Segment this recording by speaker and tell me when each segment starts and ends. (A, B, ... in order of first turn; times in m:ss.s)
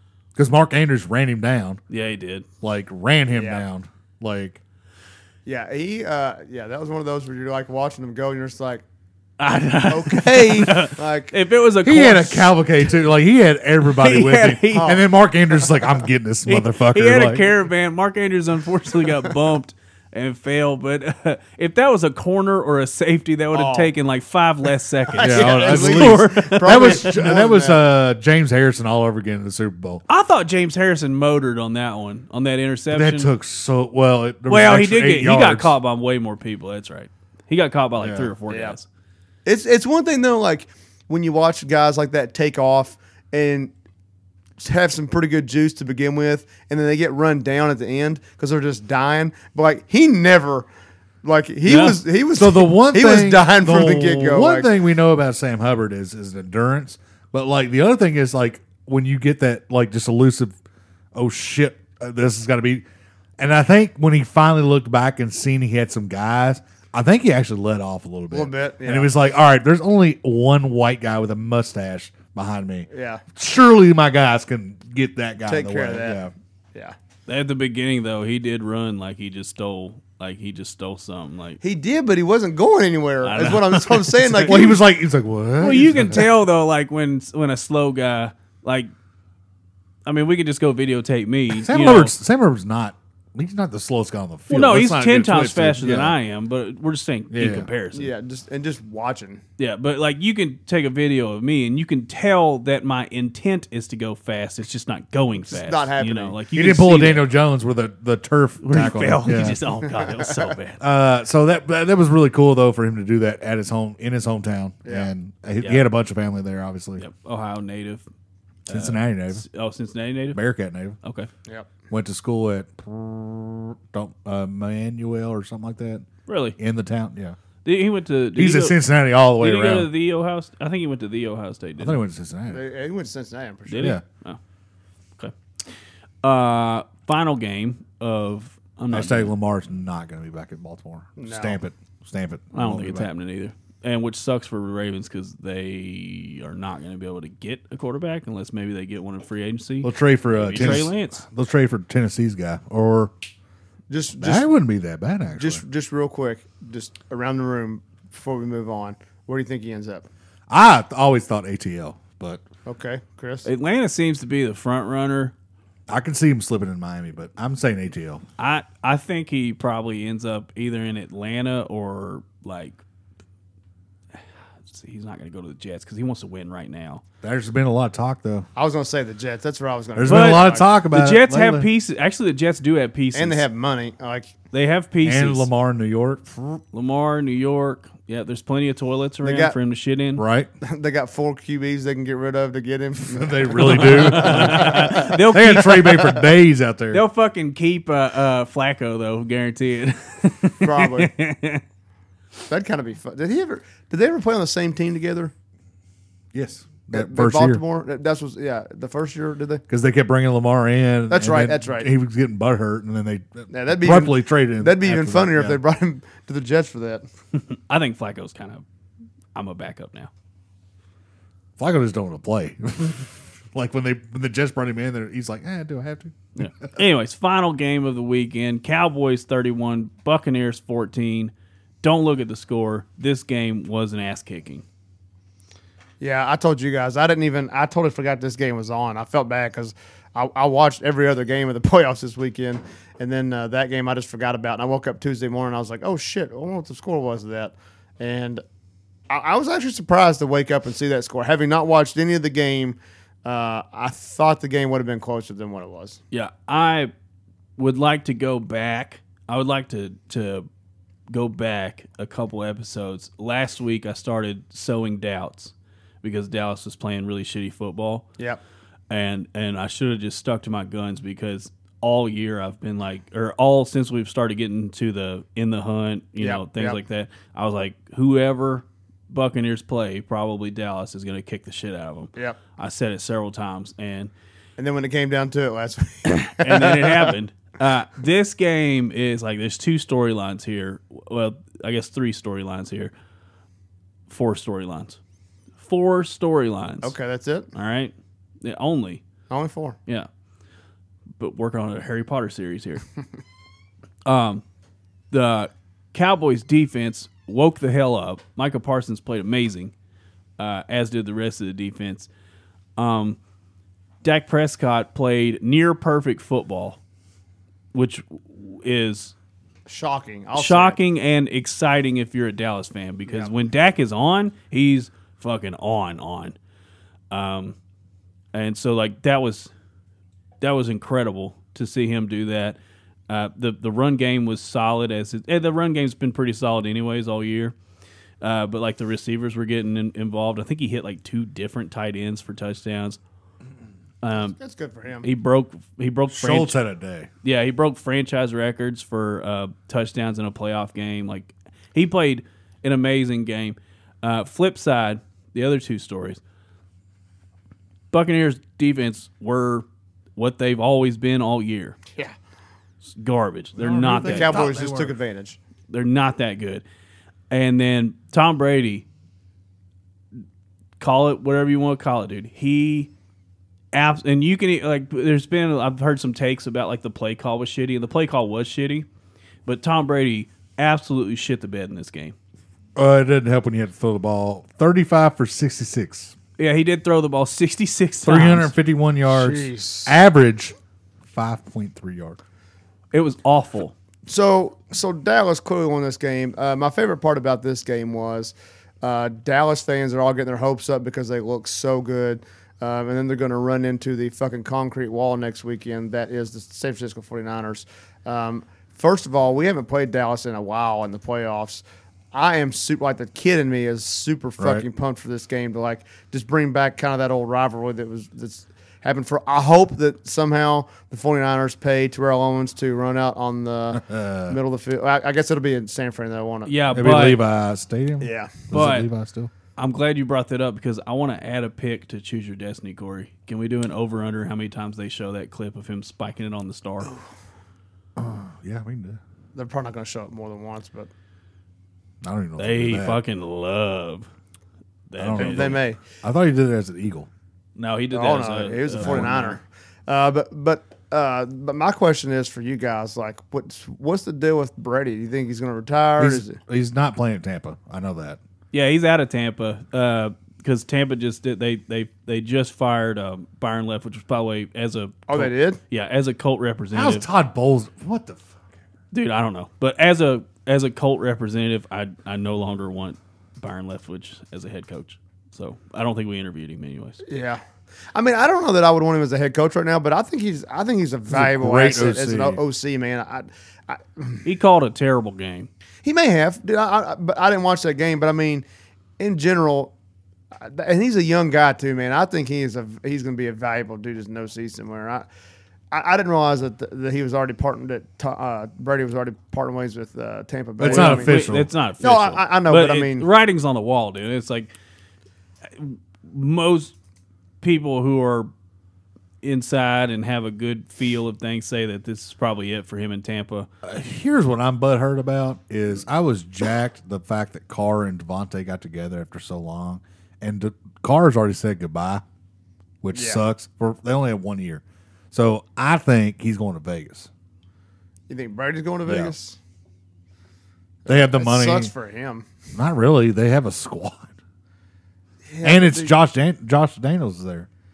0:00.4-0:01.8 A
0:01.9-0:02.5 B
0:02.6-0:04.6 A
0:03.3-0:03.6 C
0:05.4-0:08.8 C
0:09.4-0:12.9 B
0:09.9-0:11.3 C
0:11.8-0:17.5 A
0:13.8-0:15.0 B
0:14.7-0:15.0 C
0:16.5-0:27.1 B
0:23.5-0:23.9 C
0:25.1-0:27.8 C
0:25.2-0:30.0 A
0:30.1-0:33.3 B
0:32.9-0:35.7 A
0:34.5-0:38.8 B
0:38.0-0:38.3 A
0:38.5-0:38.8 C
0:39.4-0:43.7 C
0:44.6-0:50.7 C
0:51.2-0:54.7 C
0:51.7-0:52.0 B
0:52.3-1:00.5 A
1:01.1-1:02.8 A
1:03.4-1:16.3 A
1:08.3-1:09.1 C
1:12.9-1:13.2 C
1:15.5-1:16.2 C
1:17.3-1:21.6 B
1:21.6-1:24.8 C
1:23.2-1:24.6 B
1:24.3-1:26.3 A
1:25.6-1:28.9 B
1:30.0-1:32.1 B
1:31.5-1:36.2 A
1:34.5-1:38.1 B
1:37.3-1:37.7 A
1:37.9-1:39.4 C
1:39.6-1:47.3 B
1:45.4-1:46.4 C
1:46.5-1:49.6 A
1:48.6-1:50.8 B
1:49.8-1:50.5 C
1:50.8-1:57.0 A
1:54.8-1:55.1 C
1:57.0-1:58.0 B
1:58.7-2:00.4 B
1:58.7-1:59.4 A
2:00.3-2:01.0 A
2:01.0-2:01.3 B
2:01.9-2:07.4 A
2:06.3-2:06.6 B
2:07.6-2:08.8 B
2:08.3-2:09.9 A
2:09.4-2:12.0 B
2:11.8-2:12.6 A
2:12.5-2:14.0 C
2:13.7-2:14.4 B
2:16.2-2:19.3 B
2:18.9-2:23.1 A
2:21.2-2:21.6 C
2:22.5-2:31.2 B
2:29.8-2:33.1 A
2:33.9-2:34.5 C
2:34.2-2:35.6 A
2:35.4-2:40.0 C
2:40.5-2:42.4 A
2:42.6-2:43.5 C
2:43.4-2:45.3 B
2:45.9-2:48.2 A
2:48.4-2:52.8 B
2:54.7-2:57.0 B
2:57.2-2:58.5 A
2:58.6-3:00.6 C
3:00.0-3:01.7 A
3:00.1-3:03.4 B
3:03.1-3:04.3 C
3:04.5-3:05.5 B
3:05.0-3:06.3 A
3:06.4-3:10.2 B
3:09.2-3:09.6 C
3:10.1-3:10.5 A
3:10.6-3:15.1 C
3:13.1-3:17.0 A
3:13.6-3:16.2 B
3:16.9-3:21.6 B
3:20.6-3:21.1 C
3:22.5-3:25.3 C
3:26.3-3:27.6 A
3:26.9-3:29.6 C
3:29.7-3:35.6 A
3:31.1-3:31.9 C
3:33.5-3:37.0 C
3:37.3-3:38.6 B
3:39.3-3:40.1 B
3:41.6-3:46.7 A
3:46.4-3:54.6 B
3:56.0-4:08.4 C
4:09.1-4:16.0 C
4:16.1-4:16.9 B
4:17.6-4:20.5 B
4:21.1-4:28.1 B
4:28.9-4:44.1 B
4:36.2-4:36.8 C
4:44.6-4:47.1 C
4:46.4-4:52.9 B
4:54.1-4:55.0 B
4:55.6-4:56.9 B
4:56.8-4:57.5 C
4:57.5-4:59.0 B
4:59.3-4:59.8 C
5:01.2-5:02.8 B
5:04.0-5:04.4 B
5:05.1-5:09.7 B
5:10.4-5:12.1 B
5:12.8-5:13.2 B
5:14.0-5:16.8 B
5:17.7-5:19.1 B
5:19.7-5:20.8 C
5:20.3-5:26.3 B
5:27.1-5:27.6 B
5:28.3-5:29.5 B
5:30.4-5:32.6 B
5:33.1-5:37.5 B
5:38.2-5:43.0 B
5:44.0-5:44.4 B
5:44.2-5:45.1 C
5:45.0-5:46.6 B
5:46.1-5:47.1 A
5:47.2-5:56.2 B
5:57.9-6:01.8 B
6:02.9-6:04.4 B
6:03.6-6:04.9 A
6:04.0-6:05.4 C
6:05.7-6:06.6 B
6:07.3-6:08.8 B
6:10.8-6:12.9 B
6:13.7-6:18.9 B
6:19.4-6:22.1 B
6:22.8-6:26.2 A
6:26.4-6:28.5 B
6:28.0-6:30.6 A
6:29.1-6:29.9 C
6:31.1-6:32.2 A
6:32.9-6:33.7 B
6:34.1-7:06.5 C
6:54.4-6:54.6 A
7:03.7-7:04.4 A
7:06.4-7:07.2 B
7:06.7-7:09.3 A
7:08.0-7:08.4 C
7:08.5-7:08.9 B
7:09.6-7:16.9 B
7:18.0-7:19.0 A
7:19.3-7:20.9 C
7:22.0-7:23.0 A
7:22.4-7:24.1 B
7:24.9-7:25.6 B
7:25.0-7:27.1 A
7:25.2-7:25.8 C
7:27.6-7:29.1 B
7:27.9-7:36.4 C
7:28.8-7:29.4 A
7:36.0-7:38.2 A
7:38.5-7:47.0 B
7:45.1-7:45.6 C
7:46.7-7:48.4 A
7:48.9-7:57.0 B
7:57.0-7:57.4 C
7:57.9-8:04.2 C
8:01.1-8:02.4 A
8:04.2-8:05.5 B
8:05.8-8:08.4 C
8:09.0-8:09.7 C
8:10.4-8:15.0 C
8:15.7-8:21.2 C
8:20.6-8:21.5 A
8:20.6-8:24.5 B
8:21.8-8:23.1 C
8:25.5-8:26.7 B
8:27.4-8:28.3 B
8:29.2-8:33.5 B
8:33.6-8:42.0 A
8:42.8-8:47.1 A
8:42.9-8:43.2 C
8:48.1-8:49.4 C
8:48.8-8:49.1 A
8:50.8-8:52.3 C
8:50.9-8:51.7 A
8:52.5-8:54.1 A
8:55.3-8:55.9 C
8:55.4-8:57.5 A